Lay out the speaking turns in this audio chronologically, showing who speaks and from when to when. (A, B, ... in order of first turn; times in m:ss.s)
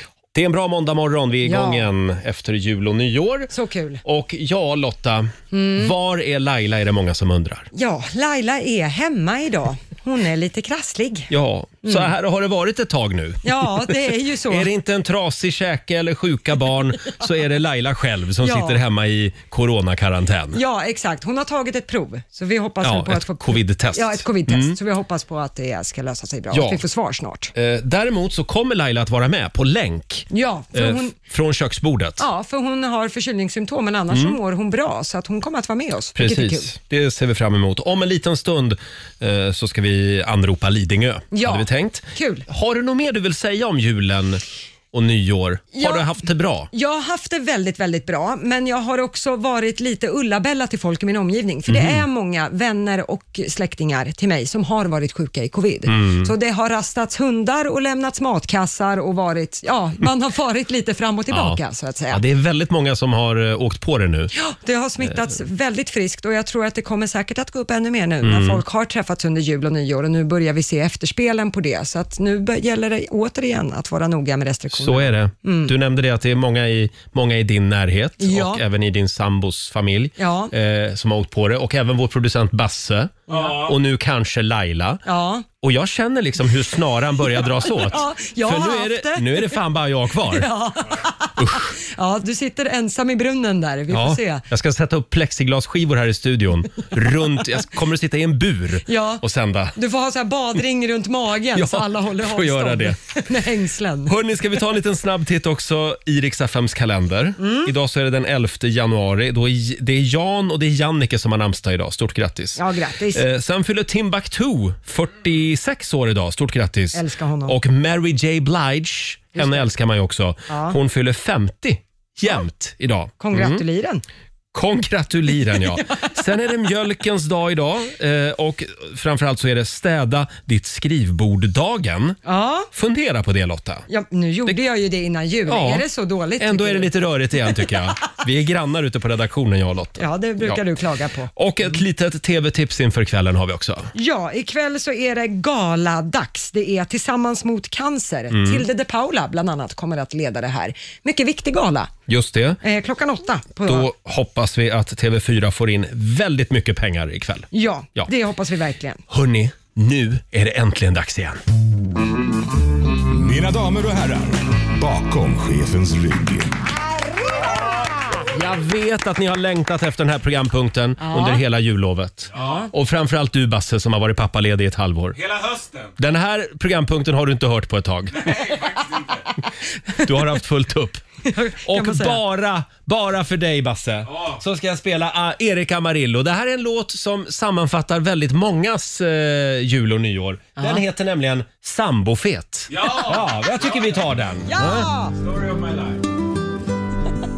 0:00.3-0:03.5 A
0:01.4-0:01.9 B
0:03.5-0:04.0 B
0:04.0-0:07.7 A
0:05.5-0:05.9 B
0:07.7-0:11.3 B
0:11.3-0:13.9 A
0:11.8-0:12.1 B
0:13.4-0:14.7 B
0:14.5-0:20.6 A
0:18.4-0:18.8 B
0:20.5-0:27.5 B
0:22.8-0:24.8 A
0:26.5-0:26.8 A
0:27.5-0:32.2 A
0:30.3-0:31.2 B
0:32.2-0:36.7 B
0:34.1-0:34.4 A
0:36.2-0:44.4 A
0:41.3-0:42.4 B
0:44.9-0:46.7 A
0:45.7-0:46.1 B
0:46.7-1:02.2 B
0:51.7-0:52.0 A
0:55.9-0:56.3 A
1:01.3-1:01.6 A
1:02.1-1:04.3 A
1:04.3-1:15.7 B
1:05.0-1:05.3 A
1:08.2-1:08.6 A
1:14.7-1:25.0 A
1:18.2-1:18.6 B
1:20.2-1:20.5 B
1:23.3-1:23.7 C
1:25.0-1:25.5 B
1:25.6-1:30.5 A
1:27.4-1:29.6 B
1:30.2-1:34.4 B
1:31.4-1:31.8 A
1:33.9-1:39.8 A
1:38.8-1:44.2 B
1:41.5-1:43.0 A
1:44.1-1:52.6 A
1:47.4-1:47.7 B
1:52.6-1:53.2 B
1:53.1-2:03.6 A
1:56.9-1:57.6 B
1:59.4-1:59.7 B
2:00.5-2:00.8 B
2:03.2-2:04.0 B
2:04.5-2:12.2 A
2:12.2-2:12.7 B
2:12.7-2:13.8 A
2:13.9-2:16.9 B
2:15.5-2:15.8 A
2:16.4-2:20.7 A
2:20.0-2:21.3 B
2:21.3-2:23.9 A
2:23.9-2:31.9 B
2:28.3-2:28.6 A
2:32.1-2:32.6 A
2:32.6-2:33.9 B
2:33.7-2:38.1 A
2:37.5-2:39.0 B
2:39.1-2:41.4 A
2:43.1-2:46.6 D
2:47.2-2:47.6 B
2:48.3-2:55.2 A
2:51.0-2:51.4 B
2:52.3-2:52.7 C
2:52.4-2:52.7 B
2:55.2-2:55.9 C
2:56.0-2:58.2 A
2:58.1-2:59.3 C
2:59.9-3:01.0 A
3:01.2-3:02.2 B
3:01.6-3:14.9 A
3:04.1-3:04.4 C
3:10.6-3:10.8 B
3:12.7-3:14.0 C
3:14.5-3:15.2 B
3:15.2-3:16.0 C